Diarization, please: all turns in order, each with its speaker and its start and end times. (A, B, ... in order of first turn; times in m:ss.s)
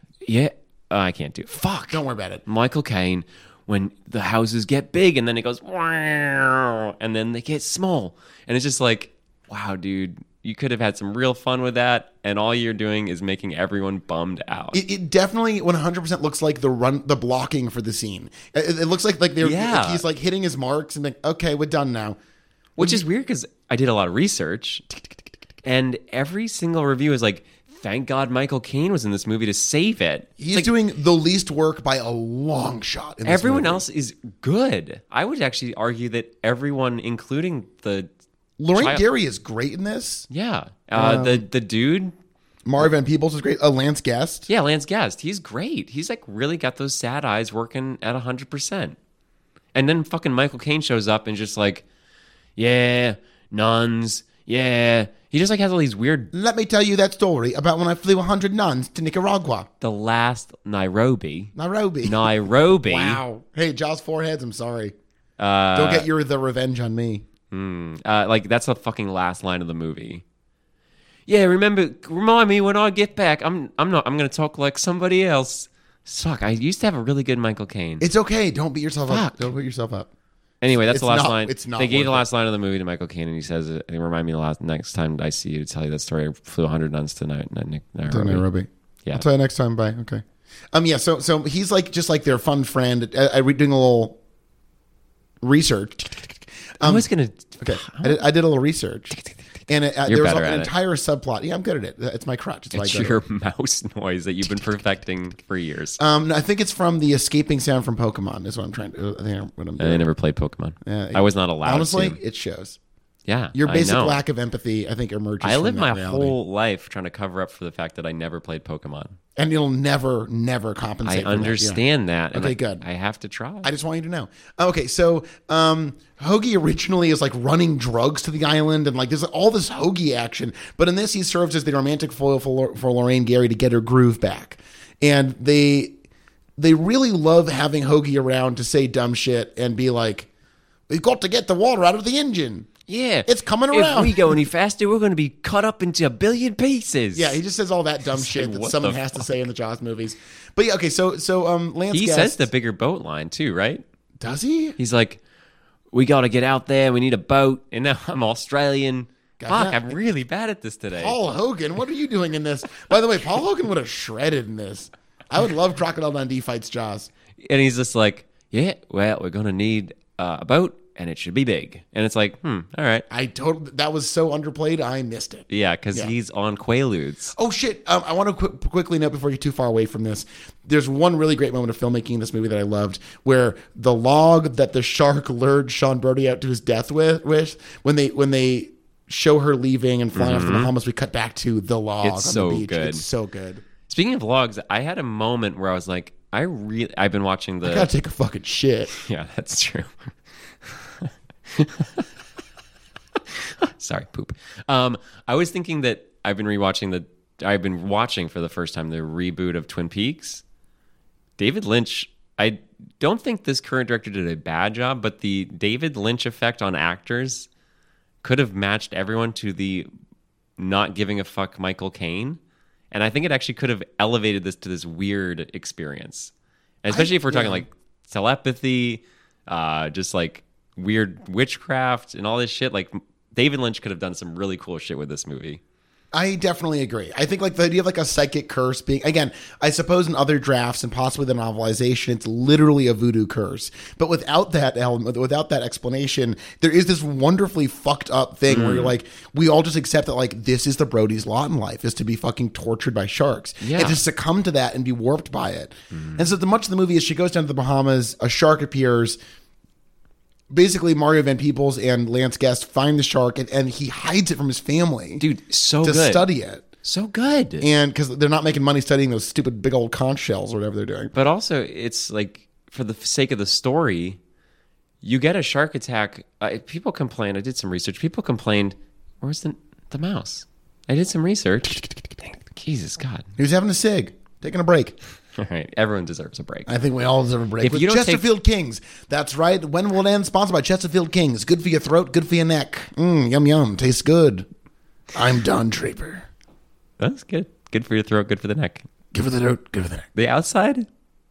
0:00.2-0:14.8 A
0:01.9-0:02.4 B
0:14.7-0:22.2 B
0:19.4-0:20.0 A
0:22.8-0:23.0 B
0:22.8-0:24.8 A
0:25.6-0:30.7 A
0:30.4-0:33.8 B
0:33.2-0:38.1 A
0:38.6-0:40.3 B
0:38.7-0:39.0 A
0:40.3-0:42.1 A
0:40.9-0:41.4 B
0:42.6-0:44.5 B
0:44.5-0:49.0 A
0:49.7-0:51.8 A
0:52.6-0:56.3 A
0:56.3-0:59.7 B
0:59.8-1:03.2 A
1:01.6-1:02.3 B
1:02.8-1:04.9 B
1:05.4-1:06.1 A
1:05.7-1:07.2 B
1:07.5-1:10.2 A
1:11.3-1:18.1 A
1:18.0-1:20.1 B
1:19.1-1:19.5 A
1:20.6-1:28.4 A
1:20.7-1:22.2 B
1:28.1-1:34.2 B
1:35.4-1:37.1 B
1:36.8-1:38.2 A
1:37.6-1:39.2 B
1:39.1-1:39.4 A
1:39.7-1:43.2 B
1:40.0-1:40.7 A
1:42.7-1:46.0 A
1:46.0-1:50.1 B
1:49.8-1:52.2 A
1:50.8-1:52.8 B
1:53.3-1:54.2 A
1:53.5-1:56.4 B
1:55.4-1:59.2 A
1:59.4-2:01.8 B
2:01.0-2:03.7 A
2:02.3-2:02.8 B
2:03.6-2:16.0 B
2:16.6-2:20.3 B
2:20.9-2:22.7 B
2:22.9-2:27.4 A
2:23.2-2:24.4 B
2:27.1-2:32.5 B
2:28.1-2:29.3 A
2:31.9-2:33.8 A
2:34.2-2:34.8 B
2:34.8-2:35.2 A
2:35.9-2:41.2 A
2:39.4-2:40.0 B
2:40.9-2:47.1 B
2:47.4-2:53.0 A
2:53.1-2:56.1 B
2:55.5-2:57.3 A
2:57.3-3:13.6 B
3:10.1-3:10.7 A
3:12.0-3:13.0 A
3:13.9-3:17.9 A
3:17.6-3:18.9 B
3:18.9-3:22.1 A
3:23.3-3:30.4 A
3:31.4-3:37.5 A
3:38.2-3:39.9 A
3:40.6-3:42.4 A
3:42.9-3:46.3 A
3:46.8-3:55.6 A
3:46.9-3:47.6 B
3:56.1-4:19.2 B
4:08.5-4:08.9 A
4:13.6-4:14.0 A
4:15.9-4:16.3 A
4:20.5-4:25.2 B
4:25.2-4:26.3 A
4:25.8-4:26.6 B
4:26.8-4:27.7 A
4:27.6-4:31.1 B
4:31.1-4:34.2 A
4:35.0-4:43.3 A
4:43.4-4:44.9 B
4:45.4-4:46.7 A
4:46.7-4:54.4 B
4:47.6-4:48.3 A
4:55.1-4:56.3 B
4:57.0-4:58.9 A
4:59.1-5:00.1 B
5:00.1-5:00.9 A